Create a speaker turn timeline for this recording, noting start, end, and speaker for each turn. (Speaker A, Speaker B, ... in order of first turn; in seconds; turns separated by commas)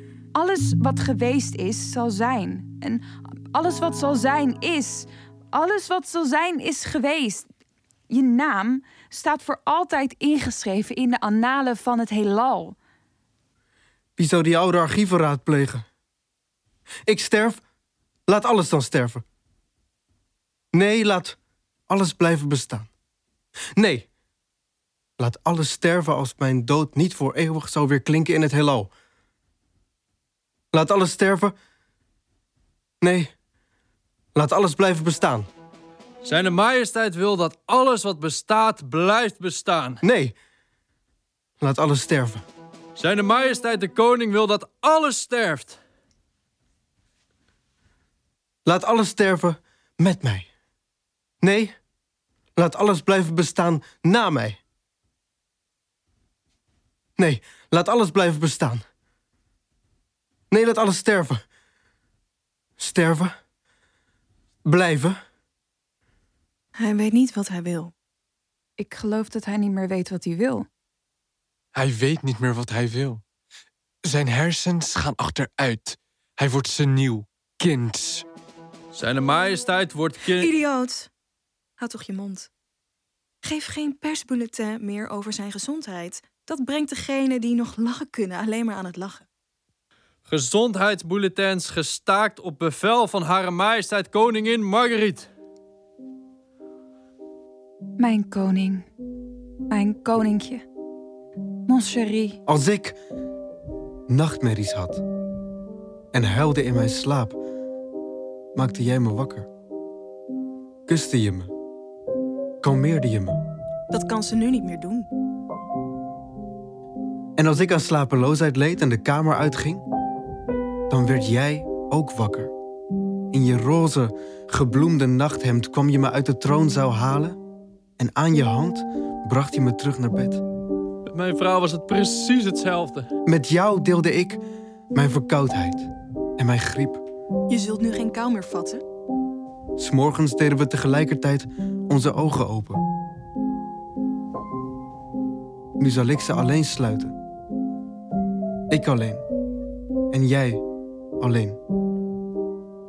Speaker A: 0.3-7.5, Speaker A: 8.1-12.8, Speaker B: 14.2-15.8, Speaker B: 17.1-17.6, Speaker B: 18.3-19.2, Speaker B: 20.7-21.4, Speaker B: 21.9-22.9, Speaker B: 23.8-24.1, Speaker B: 25.2-28.9, Speaker B: 30.7-31.6, Speaker B: 33.0-33.3, Speaker B: 34.3-35.5, Speaker C: 36.2-40.0, Speaker B: 40.0-40.3, Speaker B: 41.6-42.4, Speaker C: 43.0-45.8, Speaker B: 48.6-50.5, Speaker B: 51.4-51.8, Speaker B: 52.5-54.6, Speaker B: 57.2-58.8, Speaker B: 60.5-61.4, Speaker B: 62.8-63.4, Speaker B: 64.6-65.2, Speaker D: 66.8-67.9, Speaker A: 68.8-70.7, Speaker E: 71.7-73.2, Speaker E: 74.0-78.2, Speaker C: 78.9-80.5, Speaker D: 80.3-81.1, Speaker D: 81.8-82.5, Speaker D: 83.4-89.3, Speaker C: 90.3-95.3, Speaker A: 98.0-98.8, Speaker A: 99.7-100.6, Speaker A: 101.7-102.4, Speaker B: 102.5-103.0, Speaker B: 104.1-105.0, Speaker B: 106.1-107.4, Speaker B: 108.5-109.5, Speaker B: 110.9-111.5, Speaker B: 112.6-113.4, Speaker D: 113.9-115.1, Speaker B: 117.4-119.8, Speaker B: 120.9-122.5, Speaker B: 123.3-127.4, Speaker B: 128.0-130.4, Speaker C: 131.1-133.1, Speaker B: 133.2-134.4, Speaker B: 134.9-137.0, Speaker D: 137.5-138.8, Speaker B: 139.8-142.8, Speaker B: 145.8-147.2, Speaker B: 148.7-149.2, Speaker B: 150.1-150.6, Speaker B: 151.2-151.6